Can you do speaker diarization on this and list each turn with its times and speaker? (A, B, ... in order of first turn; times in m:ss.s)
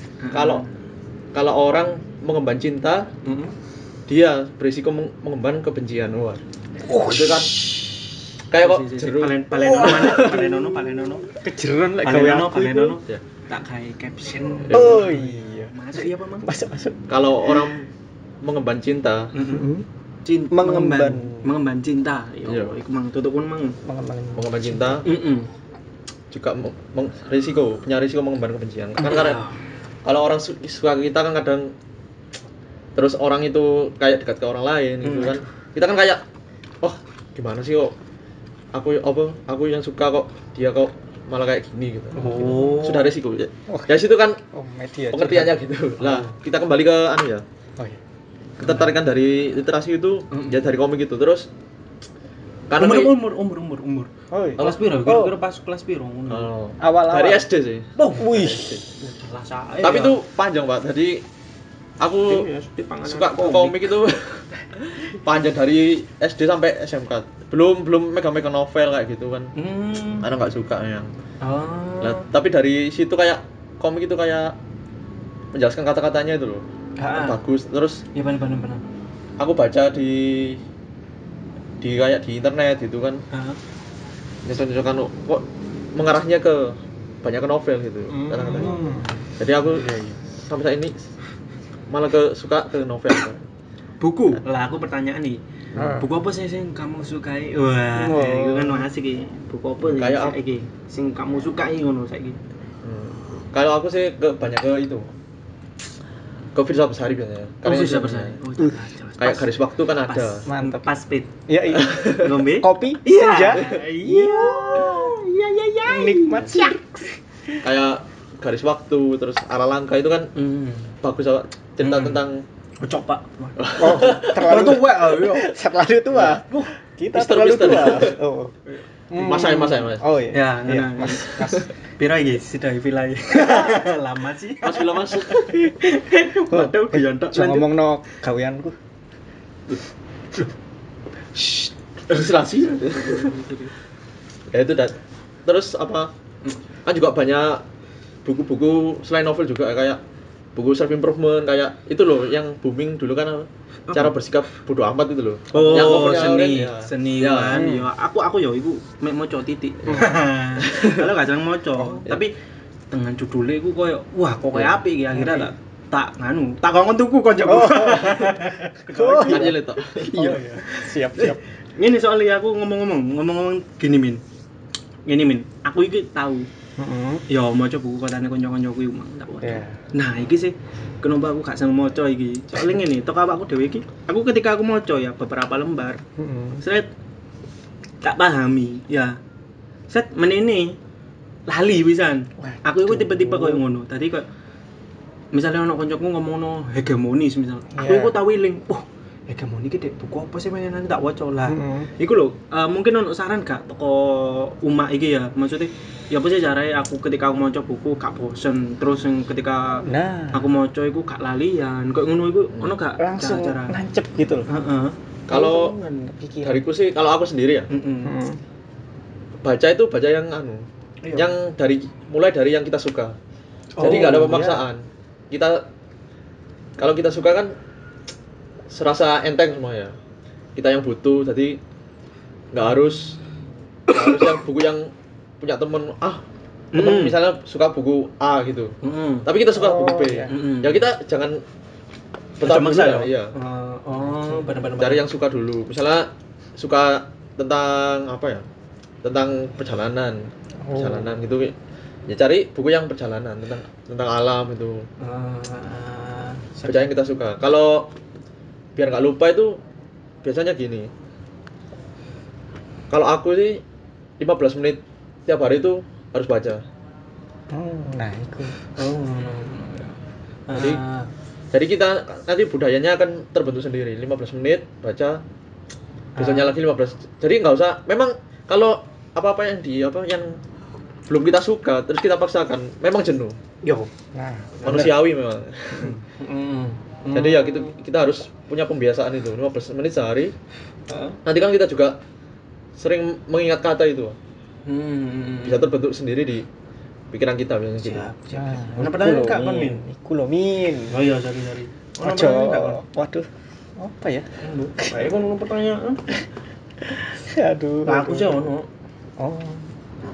0:00.2-0:00.7 A
0:00.3-0:00.6 B
0:01.3-0:03.1 B
0:03.2-0:03.5 A
0:04.1-0:06.4 B
0:06.9-0:07.5 C
0:07.0-0:07.5 B
0:08.5-0:10.3 B
0:08.6-0:11.3 A
0:09.5-0:13.0 C
0:12.0-0:16.5 A
0:14.6-0:15.1 B
0:14.7-0:17.7 C
0:17.1-0:17.9 B
0:18.4-0:19.3 B
0:19.3-0:19.7 A
0:19.4-0:19.9 C
0:20.2-0:23.8 A
0:20.5-0:21.6 C
0:22.4-0:22.8 B
0:23.8-0:24.9 C
0:24.4-0:25.1 B
0:25.0-0:25.5 A
0:26.3-0:29.4 B
0:29.0-0:29.6 A
0:30.0-0:31.7 B
0:33.0-0:36.2 B
0:35.0-0:35.4 A
0:36.8-0:38.0 B
0:38.7-0:44.4 B
0:42.2-0:43.1 A
0:42.4-0:42.6 C
0:43.7-0:46.3 C
0:45.1-0:47.4 B
0:48.6-0:51.5 B
0:48.6-0:49.0 A
0:50.3-0:50.6 A
0:52.7-0:53.2 B
0:52.8-0:56.5 A
0:54.3-0:55.4 C
0:54.6-0:54.8 B
0:56.3-0:58.8 B
0:56.8-0:57.5 C
0:58.0-0:58.4 A
0:58.0-0:58.7 C
0:59.0-1:00.2 A
0:59.8-1:01.2 B
1:02.0-1:02.5 B
1:02.3-1:03.9 A
1:03.0-1:09.5 B
1:09.6-1:10.3 A
1:10.2-1:11.1 B
1:11.4-1:12.2 A
1:12.0-1:14.6 B
1:15.5-1:18.0 B
1:17.0-1:17.4 A
1:18.1-1:18.9 A
1:19.4-1:20.6 B
1:21.8-1:23.2 B
1:23.3-1:23.6 A
1:24.4-1:28.8 B
1:28.1-1:29.2 C
1:29.4-1:29.9 B
1:29.8-1:30.2 C
1:30.5-1:31.0 B
1:31.9-1:33.4 B
1:34.0-1:35.4 A
1:35.8-1:36.1 C
1:36.0-1:42.4 A
1:37.9-1:38.9 C
1:39.8-1:40.4 B
1:42.8-1:45.1 B
1:46.6-1:48.4 B
1:47.6-1:51.3 A
1:49.2-1:50.5 B
1:50.5-1:50.9 C
1:51.5-1:55.2 C
1:51.8-1:52.4 B
1:52.2-1:56.8 A
1:55.9-1:57.7 C
1:57.6-2:00.3 B
2:00.4-2:01.0 A
2:01.0-2:02.4 B
2:01.8-2:02.2 A
2:02.8-2:05.5 A
2:03.6-2:04.6 B
2:03.8-2:08.5 C
2:06.1-2:06.7 A
2:07.1-2:08.2 B
2:08.7-2:09.6 A
2:09.1-2:11.7 C
2:09.2-2:10.0 B
2:10.3-2:17.7 A
2:14.6-2:15.5 B
2:15.5-2:15.9 C
2:16.5-2:18.8 C
2:21.4-2:23.3 B
2:22.8-2:23.7 A
2:24.5-2:25.0 B
2:25.5-2:26.1 B
2:26.8-2:27.6 B
2:28.2-2:30.0 B
2:30.6-2:37.7 B
2:33.9-2:34.2 A
2:35.5-2:42.3 A
2:37.5-2:37.9 C
2:40.7-2:41.0 B
2:41.8-2:42.1 C
2:42.9-2:54.2 A
2:45.1-2:45.5 C
2:47.4-2:51.4 C
2:49.3-2:50.0 B
2:55.1-2:56.5 A
2:56.8-2:57.2 C
2:57.3-3:06.0 A
2:59.4-2:59.8 C
3:06.2-3:06.6 C
3:06.6-3:06.9 A
3:08.0-3:09.2 A
3:09.9-3:10.8 A
3:11.5-3:14.3 A
3:12.4-3:13.6 C
3:15.3-3:33.8 A
3:17.7-3:18.2 C
3:21.4-3:21.9 C
3:29.8-3:30.5 C
3:33.0-3:34.5 C
3:34.5-3:35.0 A
3:35.3-3:35.8 B
3:35.3-3:36.6 C
3:36.4-3:37.7 B
3:37.7-3:38.1 A
3:38.0-3:38.4 C
3:39.4-3:43.2 B
3:41.0-3:41.3 A
3:43.8-3:44.6 A
3:43.8-3:44.4 C
3:43.8-3:45.7 B
3:46.8-3:47.5 B
3:48.7-3:50.0 B
3:50.6-3:51.6 B
3:52.5-3:53.2 B
3:53.9-3:56.2 B
3:54.0-3:54.3 A
3:56.7-3:57.2 A
3:56.7-4:01.4 B
3:58.8-3:59.3 A
3:59.5-4:00.3 C
4:00.3-4:00.8 A
4:02.4-4:03.3 B
4:02.4-4:05.0 A
4:04.2-4:04.5 C
4:04.8-4:08.4 B
4:09.0-4:11.6 B
4:10.6-4:11.1 C
4:12.1-4:14.8 B
4:15.0-4:16.8 A
4:16.6-4:17.9 B
4:18.8-4:19.6 B
4:20.2-4:20.9 B
4:22.9-4:23.6 B
4:24.2-4:26.6 B
4:27.5-4:28.6 C
4:28.8-4:30.0 A
4:30.5-4:31.1 A
4:30.5-4:30.8 B
4:31.5-4:35.2 B
4:36.2-4:36.5 A
4:36.2-4:40.4 B
4:41.1-4:43.4 B
4:43.6-4:43.9 A
4:44.1-4:45.0 C
4:44.6-4:46.0 B
4:45.7-4:46.0 C
4:46.1-4:46.8 A
4:47.0-4:47.7 C
4:47.1-4:50.3 B
4:50.9-4:51.2 A
4:51.3-4:52.0 B
4:52.8-4:54.2 B
4:54.7-4:55.7 A
4:55.4-4:56.5 B
4:57.1-4:58.1 B
4:57.8-4:59.8 A
4:58.3-5:01.0 C
5:00.9-5:02.8 A
5:02.0-5:03.3 C
5:03.8-5:04.3 C
5:04.4-5:06.0 A
5:07.2-5:08.5 C
5:07.8-5:08.7 A
5:09.2-5:09.7 C